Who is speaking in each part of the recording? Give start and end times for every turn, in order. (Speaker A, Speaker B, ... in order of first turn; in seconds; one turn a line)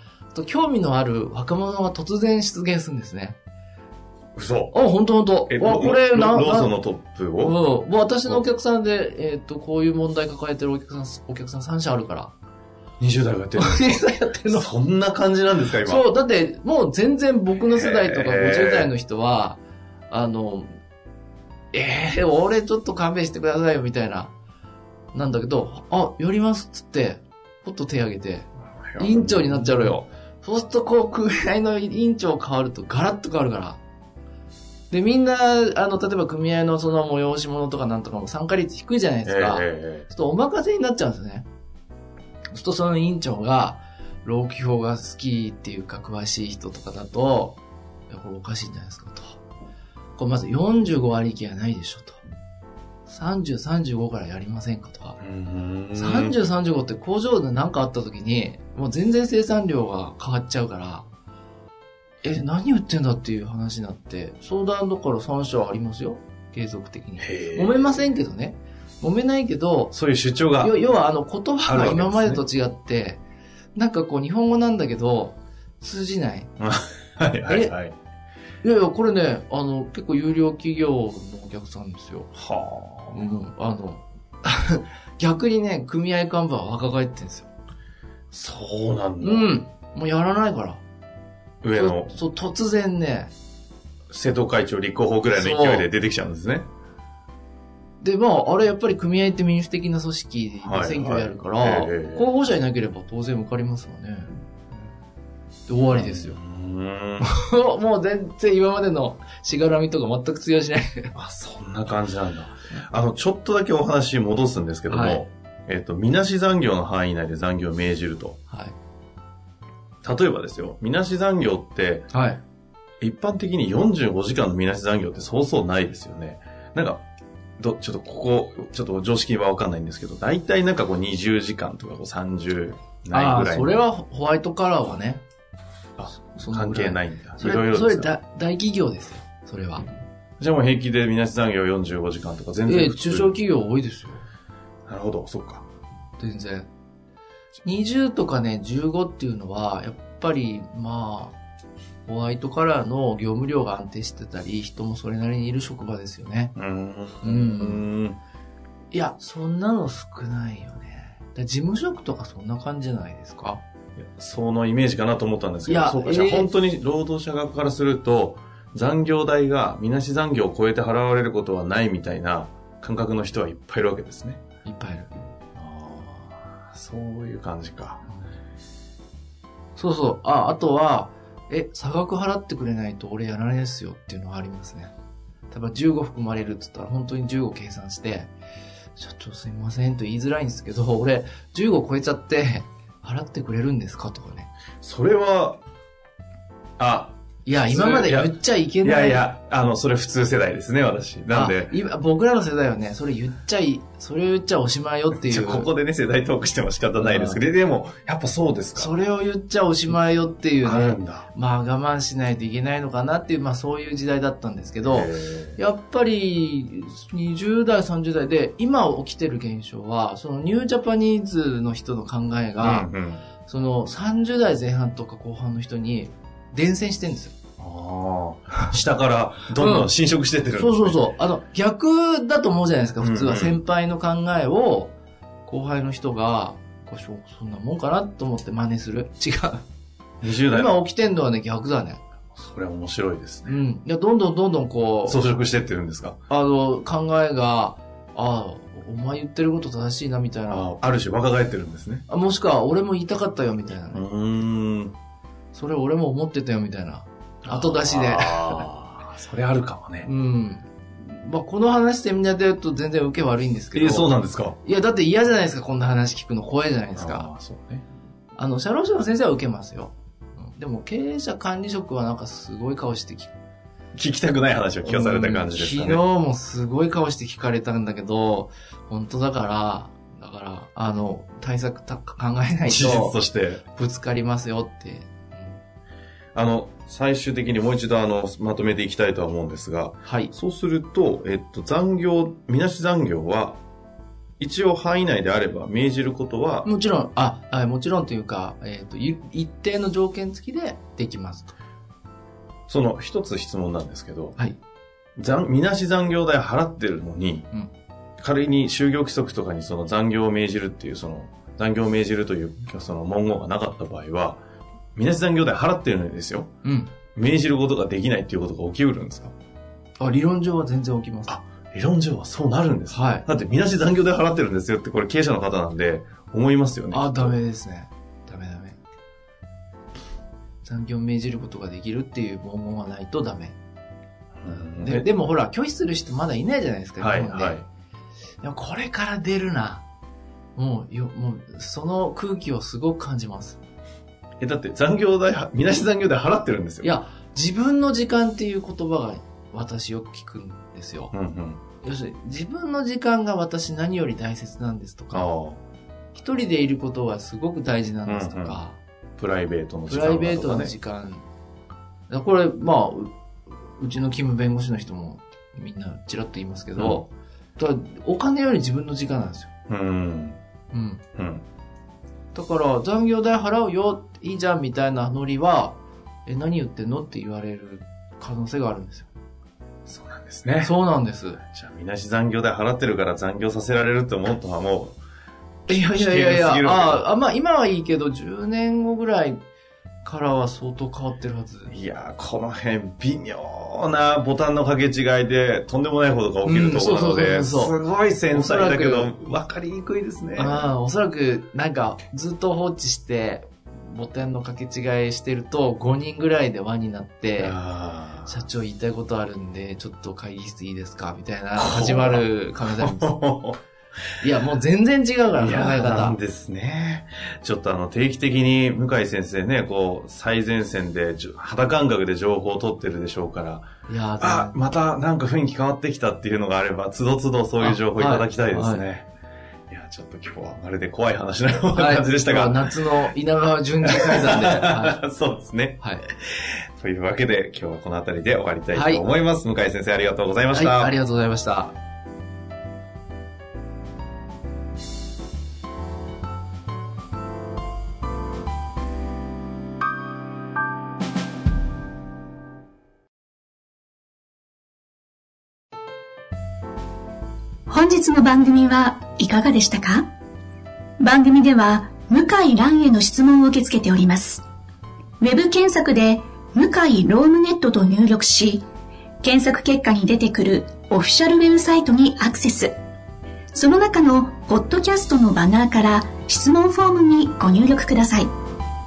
Speaker A: 0.3-3.4
Speaker B: 4.3-4.8
Speaker A: 4.7-6.8
Speaker B: 5.5-7.6
Speaker A: 7.4-12.3
Speaker B: 13.0-16.1
Speaker A: 13.6-14.7
Speaker A: 15.8-20.7
Speaker B: 17.7-18.9
Speaker A: 21.7-24.3
Speaker A: 25.1-33.8
Speaker B: 28.8-30.0
Speaker A: 34.9-41.5
Speaker B: 39.2-40.1
Speaker A: 42.5-49.4
Speaker A: 50.1-52.2
Speaker A: 53.1-55.2
Speaker B: 55.2-56.4
Speaker A: 55.9-61.0
Speaker A: 62.2-70.0
Speaker B: 67.2-68.0
Speaker B: 69.9-70.8
Speaker A: 70.6-73.2
Speaker B: 71.6-72.4
Speaker A: 73.8-76.5
Speaker B: 76.6-77.9
Speaker A: 77.5-77.7
Speaker A: 78.6-82.3
Speaker B: 82.3-83.2
Speaker A: 83.1-87.5
Speaker B: 88.3-89.6
Speaker A: 89.2-90.8
Speaker B: 91.6-92.1
Speaker A: 91.8-93.3
Speaker B: 94.1-96.7
Speaker A: 95.3-95.9
Speaker A: 98.0-104.3
Speaker B: 100.6-102.2
Speaker A: 105.7-106.4
Speaker B: 105.9-107.3
Speaker A: 107.2-111.1
Speaker B: 111.1-118.4
Speaker A: 114.9-115.3
Speaker A: 118.5-118.8
Speaker B: 120.0-122.1
Speaker A: 122.1-122.4
Speaker B: 123.0-127.0
Speaker B: 127.6-133.8
Speaker A: 133.1-135.2
Speaker B: 136.0-138.1
Speaker A: 136.3-139.9
Speaker B: 140.4-143.4
Speaker A: 142.7-144.2
Speaker B: 144.9-145.6
Speaker A: 146.2-146.7
Speaker A: 147.6-151.4
Speaker A: 152.1-156.5
Speaker B: 156.6-158.2
Speaker A: 157.2-157.9
Speaker A: 158.9-163.6
Speaker B: 164.0-174.4
Speaker A: 165.7-166.5
Speaker A: 174.6-175.1
Speaker B: 175.6-178.1
Speaker A: 179.8-184.9
Speaker A: 185.5-188.3
Speaker A: 189.0-194.5
Speaker B: 194.8-195.6
Speaker B: 196.8-201.7
Speaker A: 197.4-199.2
Speaker A: 201.3-205.7
Speaker B: 205.1-208.9
Speaker A: 207.0-207.4
Speaker A: 208.8-222.9
Speaker B: 210.6-211.3
Speaker B: 214.8-215.6
Speaker B: 222.6-223.2
Speaker A: 223.5-227.3
Speaker B: 227.6-231.0
Speaker A: 229.6-229.9
Speaker A: 230.5-239.6
Speaker B: 233.0-233.6
Speaker B: 240.2-240.7
Speaker A: 240.5-242.0
Speaker B: 242.4-243.6
Speaker A: 243.5-245.3
Speaker B: 245.1-246.2
Speaker A: 246.3-250.7
Speaker B: 250.5-252.0
Speaker A: 252.1-254.0
Speaker B: 253.9-254.9
Speaker A: 255.5-258.6
Speaker B: 257.4-260.1
Speaker A: 260.0-267.3
Speaker B: 263.7-264.6
Speaker B: 267.0-267.9
Speaker A: 268.4-273.3
Speaker B: 273.9-276.0
Speaker A: 274.8-285.6
Speaker B: 282.6-283.6
Speaker B: 286.4-293.6
Speaker A: 290.0-290.3
Speaker B: 294.4-296.7
Speaker A: 296.6-301.5
Speaker B: 302.7-304.4
Speaker B: 305.2-307.5
Speaker B: 308.2-314.4
Speaker B: 315.0-316.5
Speaker A: 316.6-316.9
Speaker B: 317.1-319.3
Speaker A: 320.0-321.4
Speaker B: 321.3-327.4
Speaker A: 322.9-323.2
Speaker A: 326.9-328.8
Speaker A: 330.6-333.6
Speaker B: 334.4-335.1
Speaker A: 334.5-337.6
Speaker B: 337.0-337.6
Speaker A: 338.4-339.9
Speaker A: 340.6-343.6
Speaker B: 344.4-346.9
Speaker A: 346.8-351.1
Speaker B: 351.1-351.6
Speaker A: 351.8-355.3
Speaker B: 355.1-355.6
Speaker A: 356.1-358.8
Speaker B: 358.0-358.6
Speaker B: 359.2-360.7
Speaker A: 359.9-361.2
Speaker A: 362.1-363.1
Speaker A: 363.8-369.5
Speaker B: 366.8-367.1
Speaker B: 369.7-370.4
Speaker A: 370.7-371.0
Speaker B: 371.2-371.4
Speaker A: 372.3-379.1
Speaker B: 379.9-380.7
Speaker A: 380.6-381.4
Speaker B: 381.4-385.0
Speaker B: 385.7-387.0
Speaker A: 385.7-389.4
Speaker A: 390.0-391.7
Speaker B: 391.7-400.7
Speaker A: 396.4-397.8
Speaker A: 398.3-399.1
Speaker A: 400.4-407.6
Speaker B: 407.4-408.4
Speaker A: 408.2-413.1
Speaker B: 411.6-413.6
Speaker A: 414.2-416.2
Speaker B: 415.3-423.7
Speaker A: 423.9-424.6
Speaker B: 424.2-429.1
Speaker A: 427.6-428.8
Speaker B: 429.7-432.7
Speaker A: 431.7-435.0
Speaker B: 433.9-440.9
Speaker A: 435.8-436.0
Speaker A: 438.7-439.0
Speaker A: 440.5-441.8
Speaker C: 457.7-460.1
Speaker C: 461.0-464.4
Speaker C: 465.2-468.6
Speaker C: 469.2-472.7
Speaker C: 473.5-478.3